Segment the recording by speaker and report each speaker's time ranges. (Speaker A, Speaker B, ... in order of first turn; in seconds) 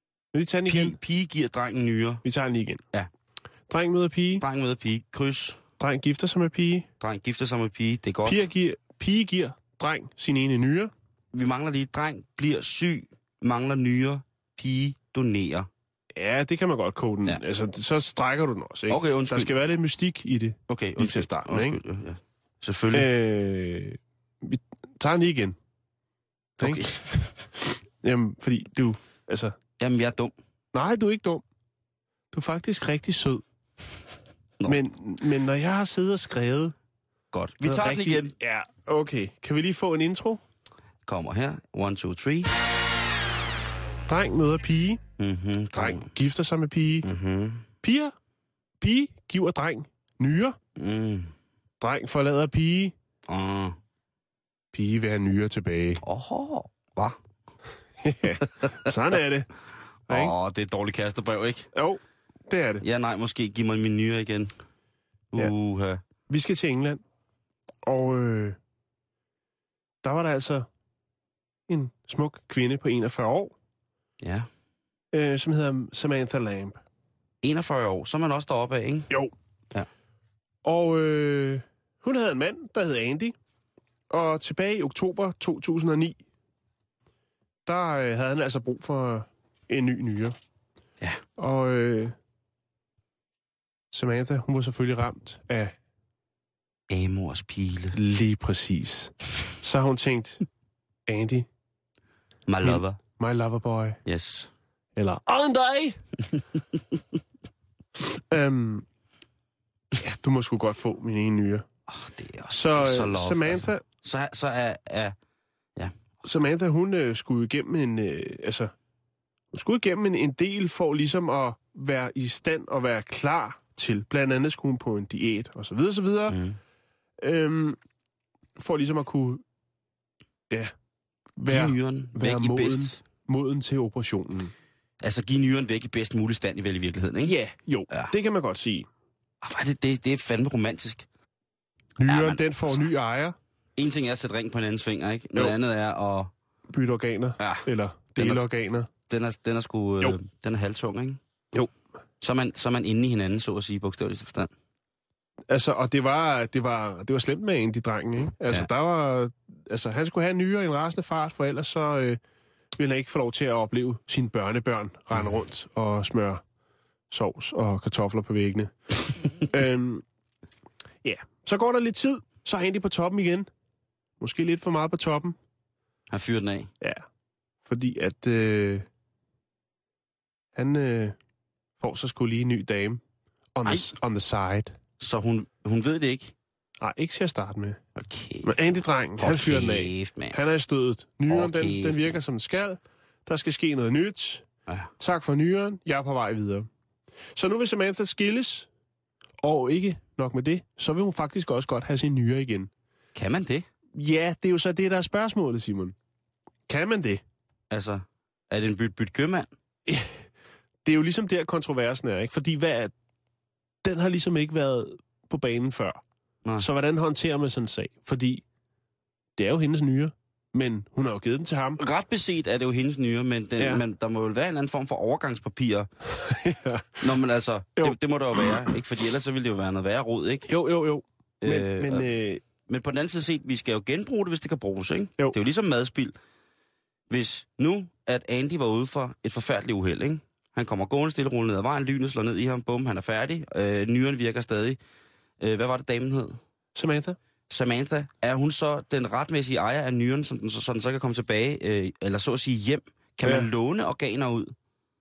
Speaker A: 0.3-1.0, 2.2-2.8, 3.7-4.4, 5.8-6.8, 8.2-10.9, 16.1-21.8, 22.9-25.6, 26.6-29.6, 30.7-31.4, 32.3-33.4, 34.7-36.7, 37.6-40.4, 44.1-45.0, 45.7-47.1, 47.8-48.1, 48.8-50.6, 51.8-52.9, 54.7-56.0, 58.0-59.5, 60.1-60.3, 61.7-62.8, 66.3-67.0, 67.8-68.6, 70.0-70.7, 71.7-73.5, 75.1-76.8, 80.6-83.3, 84.1-86.2, 87.7-90.4, 91.4-92.2, 93.9-95.8, 97.9-100.4, 101.1-101.5, 102.6-104.0, 105.0-106.0, 108.0-108.8, 109.9-111.7, 112.5-113.8, 116.2-118.7, 119.5-126.4, 127.2-127.8, 128.6-129.4, 131.4-134.5, 137.2-138.9, 142.0-143.3, 146.7-148.9, 155.5-162.2, 162.8-166.4, 167.1-170.0, 171.0-173.5, 174.2-175.3, 177.7-178.8, 180.5-181.2, 181.8-183.0, 183.5-184.8, 186.8-187.8, 188.4-194.4, 195.0-196.7, 197.3-198.7, 199.4-202.7, 203.9-205.9, 206.7-207.2, 209.9-210.2, 210.8-212.9, 213.8-216.0, 216.6-218.4, 219.4-221.8, 226.1-227.1, 227.8-228.7, 230.5-232.4, 246.7-247.2, 253.2-253.5
Speaker B: 0.7-2.2, 4.4-5.6, 7.0-8.4, 11.3-15.7, 18.9-19.5, 20.7-23.1, 26.6-27.1, 29.8-30.3, 37.3-38.3, 41.0-42.5, 45.2-46.1, 47.0-47.6, 50.8-51.3, 53.3-53.8, 56.0-57.2, 58.6-58.9, 60.1-61.7, 62.8-64.5, 65.3-66.0, 74.2-74.5, 77.4-79.1, 96.9-98.0, 102.5-103.0, 104.0-104.5, 111.9-115.1, 126.3-126.6, 131.4-133.0, 135.0-137.3, 139.4-141.1, 142.1-142.8, 143.8-146.3, 147.4-148.4, 149.1-151.2, 152.2-154.5, 176.1-176.7, 183.6-183.9, 185.0-186.3, 187.9-188.5, 189.2-190.4, 191.3-192.2, 203.1-203.7, 207.7-209.5, 221.8-225.9, 227.0-230.5, 231.4-232.1, 232.7-236.1, 237.1-244.8, 245.4-246.4, 247.5-254.5